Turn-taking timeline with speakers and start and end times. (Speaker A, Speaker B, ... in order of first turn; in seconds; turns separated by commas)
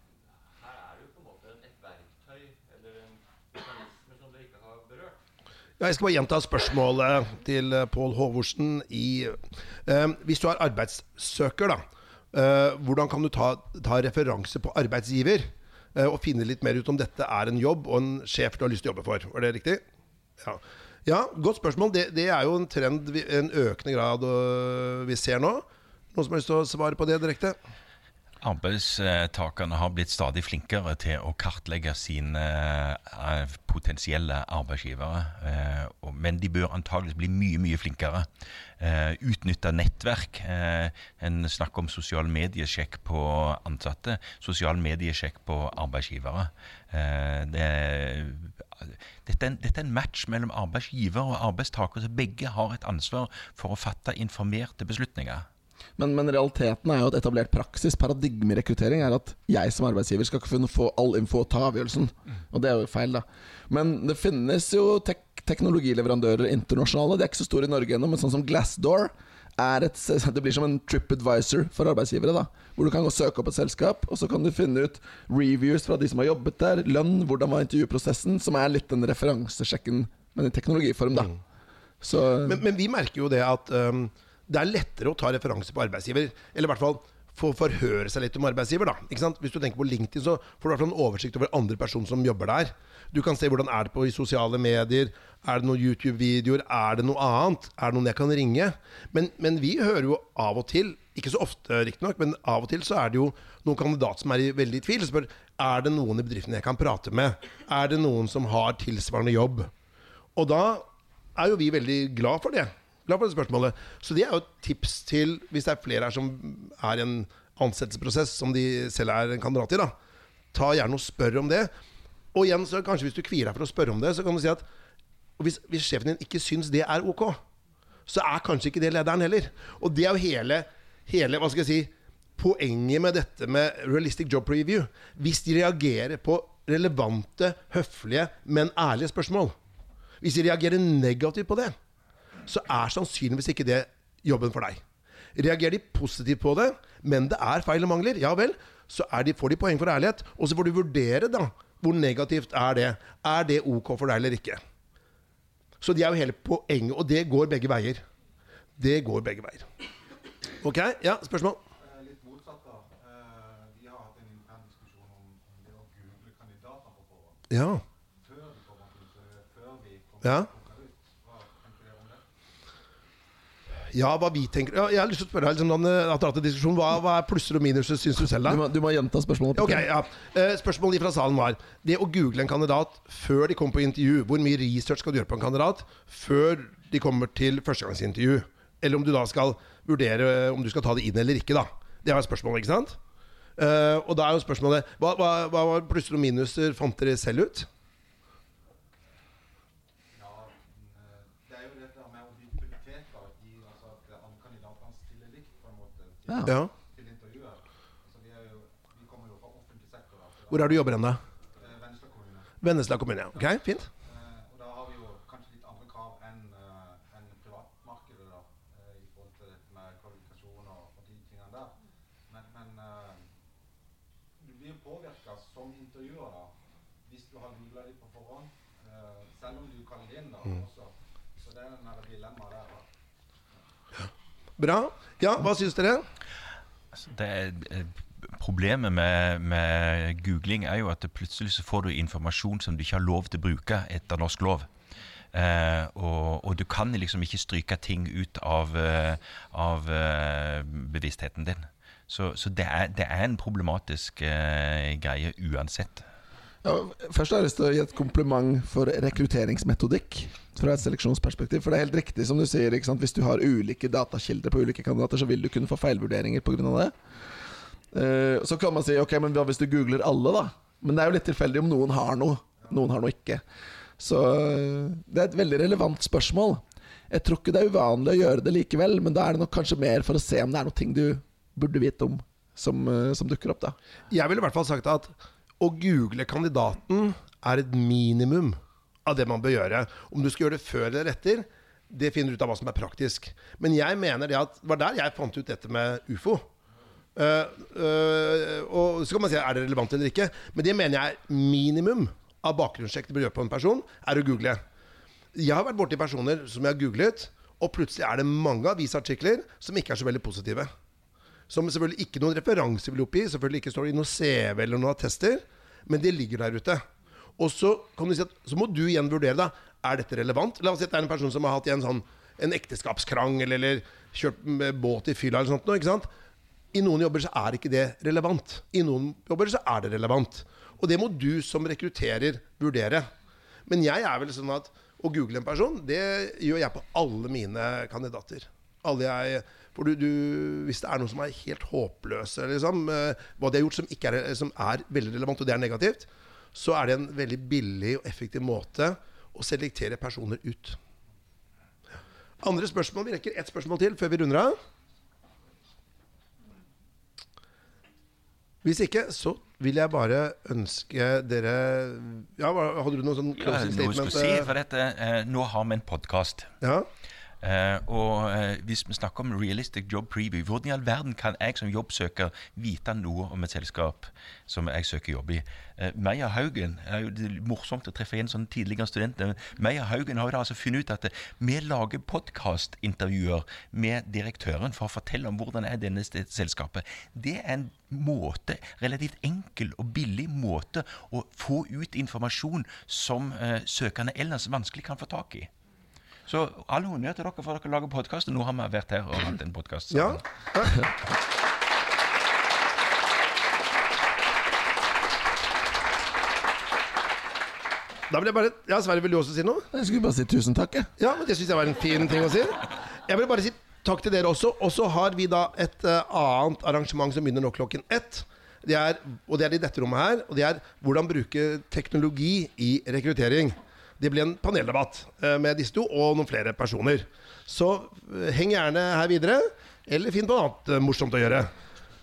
Speaker A: 0.3-5.2, Speaker B: 5.8-11.8, Speaker B: 12.3-19.8, Speaker B: 20.4-27.6, Speaker C: 28.4-38.3, Speaker C: 38.8-55.5, Speaker D: 56.0-81.3, Speaker D: 82.0-82.6, Speaker B: 82.4-109.7, Speaker B: 110.3-110.8, Speaker B: 111.3-119.9, Speaker B: 120.5-121.7, Speaker B: 122.3-124.6, Speaker B: 125.4-127.4, Speaker B: 128.1-139.5, Speaker B: 140.2-141.8, Speaker B: 142.4-144.8, Speaker B: 145.3-154.6, Speaker B: 155.8-158.0, Speaker B: 158.8-159.7, Speaker B: 160.6-161.6, Speaker E: 161.8-167.4, Speaker B: 167.5-167.8, Speaker E: 168.2-172.2, Speaker B: 170.2-170.5, Speaker B: 173.9-178.6, Speaker D: 178.4-179.9, Speaker B: 179.5-193.0, Speaker B: 193.6-197.7, Speaker E: 200.1-212.6, Speaker B: 206.4-206.7, Speaker B: 210.5-211.2, Speaker B: 212.6-213.9, Speaker E: 214.0-221.8, Speaker E: 222.3-223.3, Speaker E: 224.4-226.5, Speaker E: 227.0-232.9, Speaker B: 234.6-236.0, Speaker C: 236.9-244.7, Speaker C: 245.3-256.1, Speaker D: 256.6-266.9, Speaker D: 267.9-273.4, Speaker D: 274.0-283.8, Speaker B: 284.1-296.5, Speaker B: 297.1-304.6, Speaker B: 305.3-310.7, Speaker B: 311.5-316.8, Speaker B: 317.4-326.1, Speaker B: 326.7-333.0, Speaker B: 333.6-350.8, Speaker B: 352.4-354.6, Speaker B: 358.6-364.5, Speaker C: 363.4-366.5, Speaker B: 366.6-366.9, Speaker C: 367.4-395.5, Speaker C: 396.2-400.2, Speaker B: 399.9-400.8, Speaker B: 408.1-409.7, Speaker D: 409.7-410.9, Speaker B: 411.0-431.5